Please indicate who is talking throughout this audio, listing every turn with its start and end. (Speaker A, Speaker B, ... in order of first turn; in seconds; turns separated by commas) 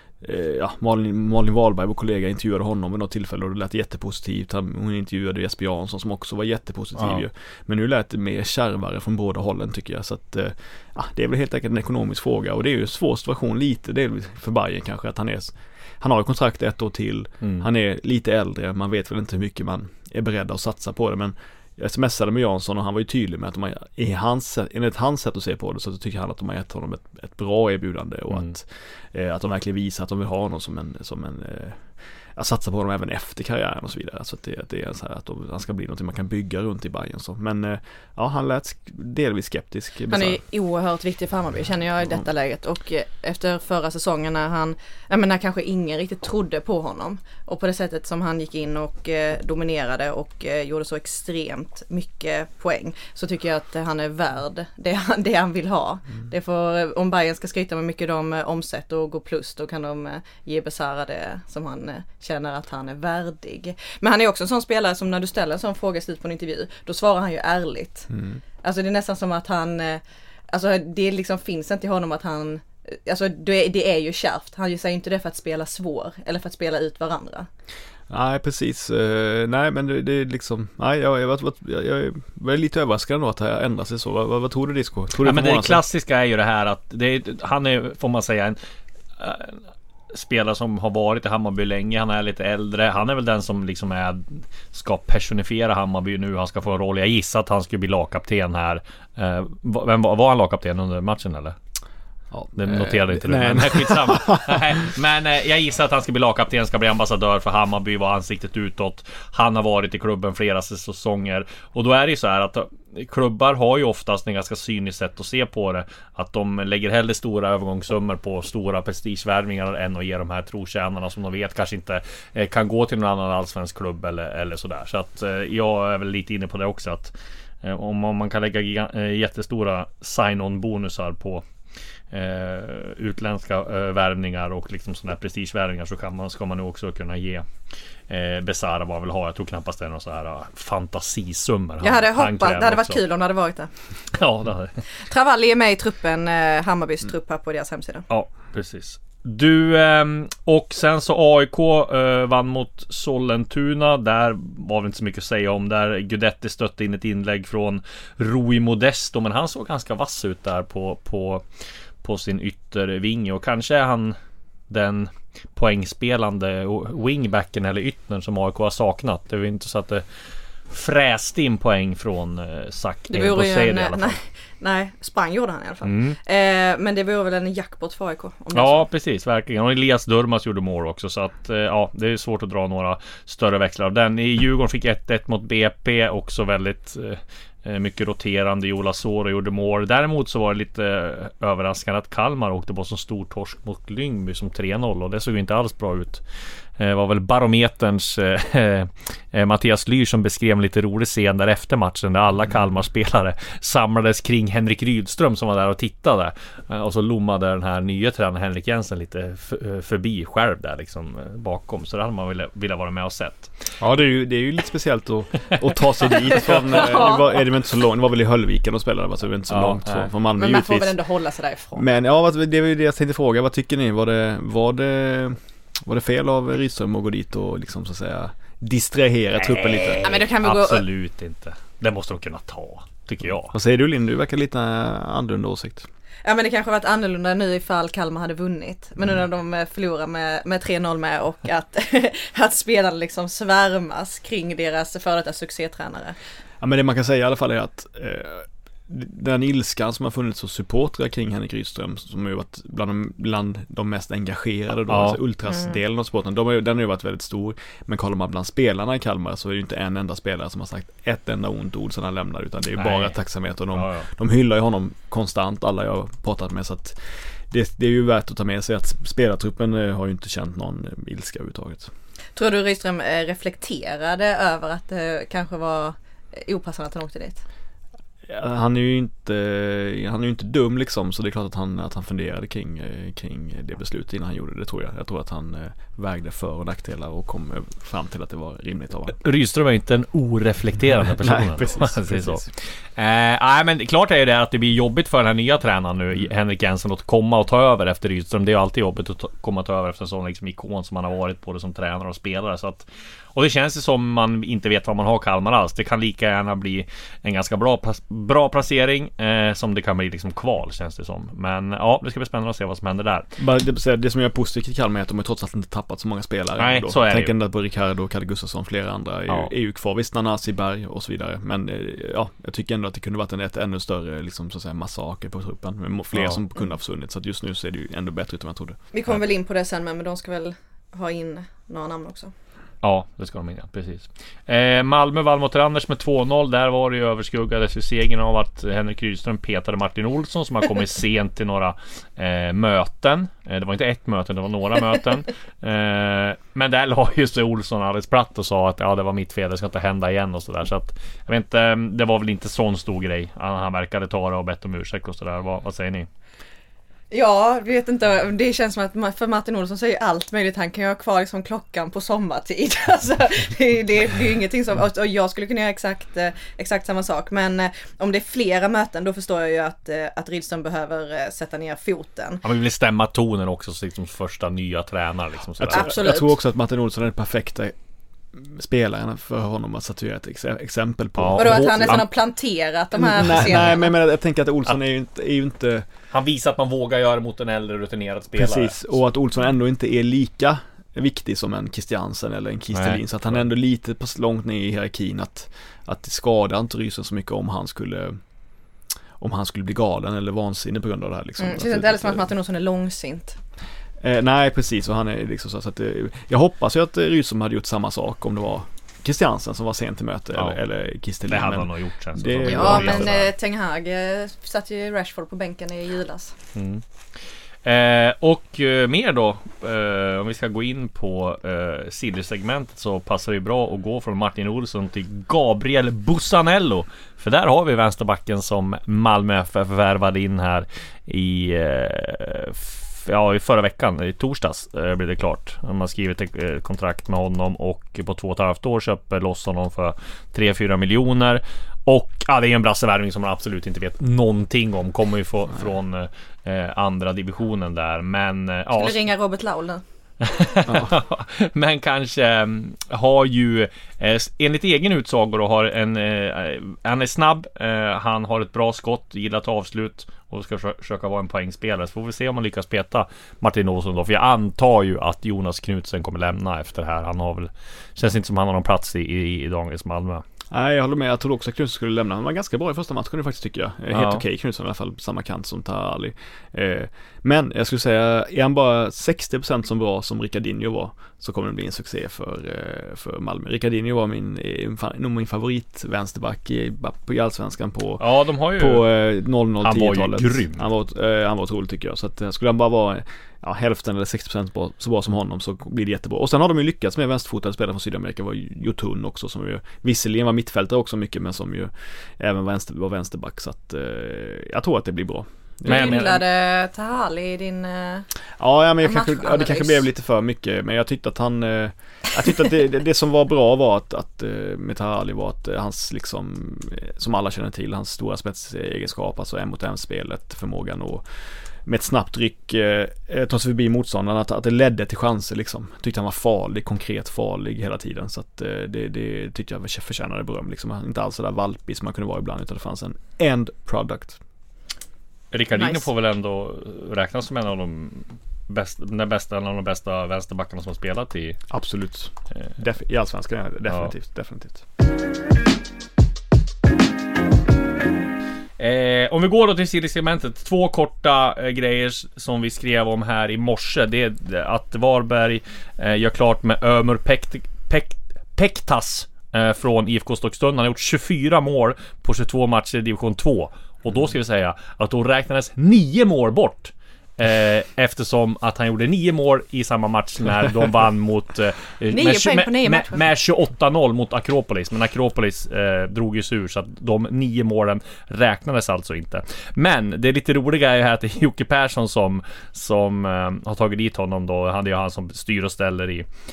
Speaker A: 0.2-40.4, Speaker B: 7.0-7.2, Speaker C: 40.1-68.1, Speaker A: 68.1-68.4, Speaker C: 68.6-77.5, Speaker A: 78.1-85.8, Speaker B: 85.2-88.6, Speaker B: 89.2-89.6, Speaker B: 90.1-101.6, Speaker A: 102.3-104.9, Speaker B: 102.6-131.4, Speaker B: 132.1-137.5, Speaker B: 138.1-143.0, Speaker C: 141.8-143.7, Speaker B: 144.1-144.8, Speaker C: 145.1-148.1, Speaker B: 148.1-161.4, Speaker B: 162.0-164.2, Speaker B: 164.7-170.1, Speaker B: 170.7-174.2, Speaker C: 173.1-178.8, Speaker B: 175.8-176.2, Speaker B: 178.6-196.2, Speaker B: 196.8-213.7, Speaker A: 213.8-220.9, Speaker B: 216.3-217.1, Speaker C: 216.7-217.2, Speaker B: 219.5-220.1, Speaker C: 220.4-221.8, Speaker A: 221.8-230.1, Speaker C: 230.0-230.8, Speaker B: 230.1-233.6, Speaker A: 233.5-235.9, Speaker C: 236.2-246.2, Speaker A: 246.6-271.9, Speaker B: 254.9-255.2, Speaker B: 262.8-263.2, Speaker B: 263.7-264.1, Speaker C: 272.4-277.4, Speaker A: 278.3-289.2, Speaker B: 289.2-292.4, Speaker A: 291.1-292.5, Speaker B: 293.0-313.3, Speaker A: 313.4-328.8, Speaker B: 316.6-317.3, Speaker B: 326.1-326.4, Speaker C: 328.9-332.3, Speaker B: 332.8-356.1, Speaker C: 357.1-372.4, Speaker B: 372.4-376.1, Speaker A: 375.6-377.8, Speaker C: 375.7-376.3, Speaker A: 378.3-382.0, Speaker B: 381.2-382.1, Speaker C: 381.4-383.9, Speaker A: 382.9-385.9, Speaker B: 386.1-389.0, Speaker A: 388.4-398.2, Speaker B: 392.7-393.5, Speaker A: 399.2-402.3, Speaker C: 401.4-403.4, Speaker A: 404.0-413.2, Speaker B: 410.4-410.6, Speaker B: 411.3-413.3, Speaker C: 412.5-416.3, Speaker B: 416.6-416.8, Speaker B: 417.6-449.0, Speaker C: 448.8-449.8, Speaker B: 450.2-470.2, Speaker A: 470.5-506.2, Speaker B: 473.9-474.2, Speaker B: 488.0-488.9, Speaker B: 489.6-490.6, Speaker B: 505.6-506.2, Speaker C: 505.6-508.1, Speaker A: 508.4-521.0, Speaker C: 508.8-509.8, Speaker A: 521.6-534.2, Speaker B: 535.3-541.4, Speaker C: 535.6-535.9, Speaker A: 541.5-544.6, Speaker B: 548.6-586.1, Speaker C: 571.9-573.0